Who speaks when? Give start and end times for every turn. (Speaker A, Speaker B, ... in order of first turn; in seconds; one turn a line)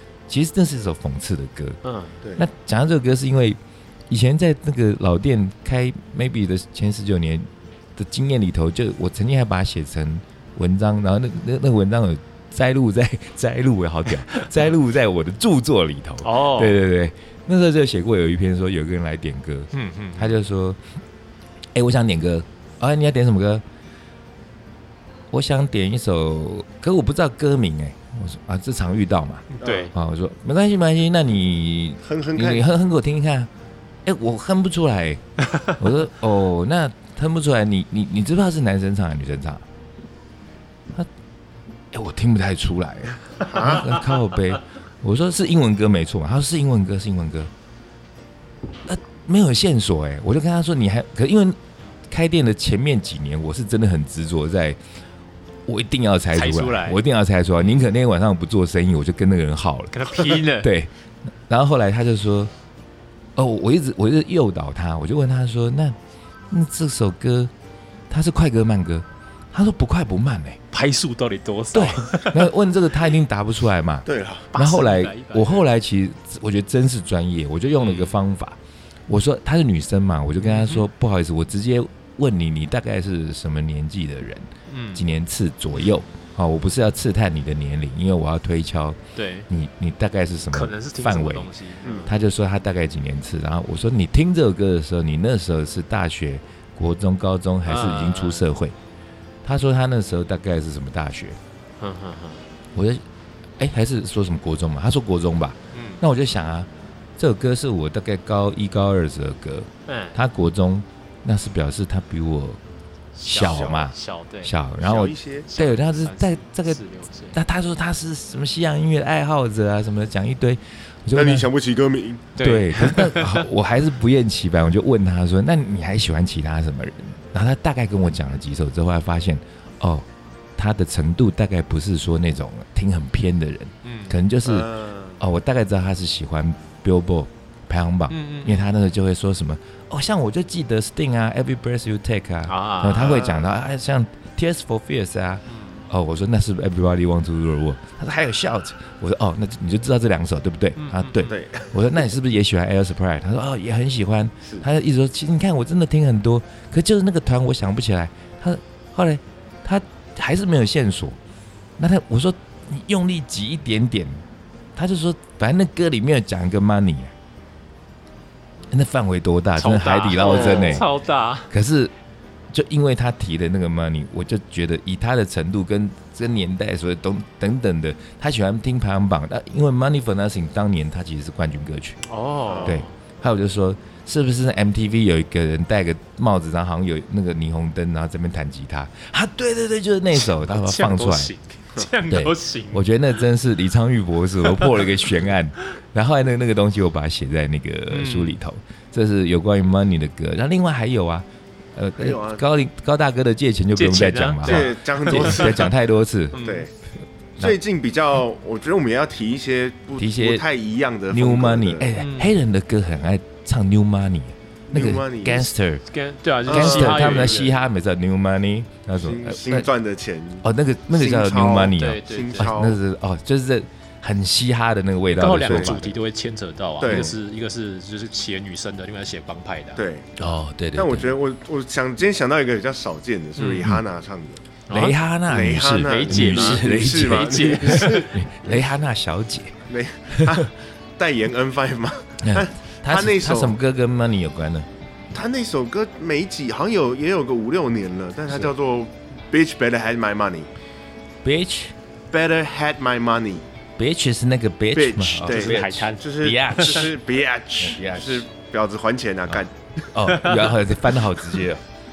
Speaker A: 0.3-1.8
Speaker B: 1.8-2.2
Speaker A: 2.4-20.8
Speaker B: 16.2-16.8
Speaker B: 19.7-20.4
Speaker A: 21.7-23.6
Speaker A: 25.3-33.5
Speaker B: 29.5-29.9
Speaker C: 29.6-29.9
Speaker C: 32.0-32.6
Speaker A: 34.0-35.2
Speaker A: 35.7-39.6
Speaker A: 41.9-47.5
Speaker C: 43.5-43.9
Speaker A: 48.9-51.6
Speaker A: 52.1-54.8
Speaker A: 55.6-60.9
Speaker B: 56.3-57.0
Speaker B: 57.6-57.8
Speaker B: 59.9-60.7
Speaker A: 61.5-62.5
Speaker A: 63.4-66.0
Speaker A: 66.5-67.5
Speaker A: 68.1-70.6
Speaker B: 70.7-72.5
Speaker A: 71.7-91.5
Speaker C: 74.0-74.5
Speaker B: 74.5-75.7
Speaker B: 77.8-78.2
Speaker B: 80.4-80.8
Speaker B: 84.7-85.0
Speaker B: 89.2-89.5
Speaker B: 90.5-92.2
Speaker C: 91.8-92.1
Speaker A: 92.0-98.8
Speaker B: 97.7-98.4
Speaker A: 99.4-101.4
Speaker B: 101.8-102.4
Speaker A: 102.7-103.0
Speaker A: 103.6-112.6
Speaker B: 105.7-106.0
Speaker B: 109.9-110.2
Speaker B: 113.2-114.5
Speaker A: 113.2-121.5
Speaker C: 113.4-113.8
Speaker C: 114.8-115.5
Speaker B: 115.5-117.3
Speaker C: 121.1-122.3
Speaker B: 122.4-123.5
Speaker A: 122.4-161.2
Speaker B: 133.8-134.2
Speaker C: 134.4-135.2
Speaker B: 138.1-138.7
Speaker B: 142.5-143.2
Speaker C: 142.9-143.5
Speaker B: 150.8-151.3
Speaker C: 151.2-152.0
Speaker A: 161.8-164.2
Speaker A: 164.8-167.1
Speaker A: 168.7-170.9
Speaker B: 169.6-171.5
Speaker C: 170.2-170.8
Speaker A: 171.5-171.9
Speaker A: 172.5-182.0
Speaker B: 182.1-182.9
Speaker C: 182.4-182.8
Speaker A: 182.6-191.3
Speaker B: 190.1-192.8
Speaker A: 192.1-206.4
Speaker B: 197.9-198.4
Speaker C: 201.9-202.4
Speaker B: 203.7-205.7
Speaker C: 204.4-205.7
Speaker B: 206.3-206.7
Speaker C: 206.3-206.7
Speaker C: 207.4-211.9
Speaker A: 210.0-210.4
Speaker A: 211.1-215.8
Speaker B: 212.0-212.3
Speaker C: 214.7-215.5
Speaker B: 215.9-217.6
Speaker A: 216.4-219.7
Speaker C: 216.4-217.4
Speaker C: 219.0-222.8
Speaker A: 220.4-226.0
Speaker B: 221.8-222.5
Speaker B: 225.2-229.8
Speaker C: 225.4-225.7
Speaker C: 226.8-227.1
Speaker C: 229.8-230.1
Speaker A: 230.2-231.1
Speaker C: 230.7-234.4
Speaker B: 233.4-233.7
Speaker B: 234.7-235.0
Speaker A: 234.7-239.6
Speaker C: 235.3-238.7
Speaker B: 235.8-238.1
Speaker C: 239.7-243.6
Speaker A: 242.2-244.7
Speaker C: 245.1-250.5
Speaker A: 251.2-251.7
Speaker C: 252.1-253.4
Speaker A: 253.8-256.9
Speaker C: 254.7-259.5
Speaker B: 255.2-256.9
Speaker A: 257.6-258.2
Speaker A: 259.9-261.6
Speaker B: 260.1-260.6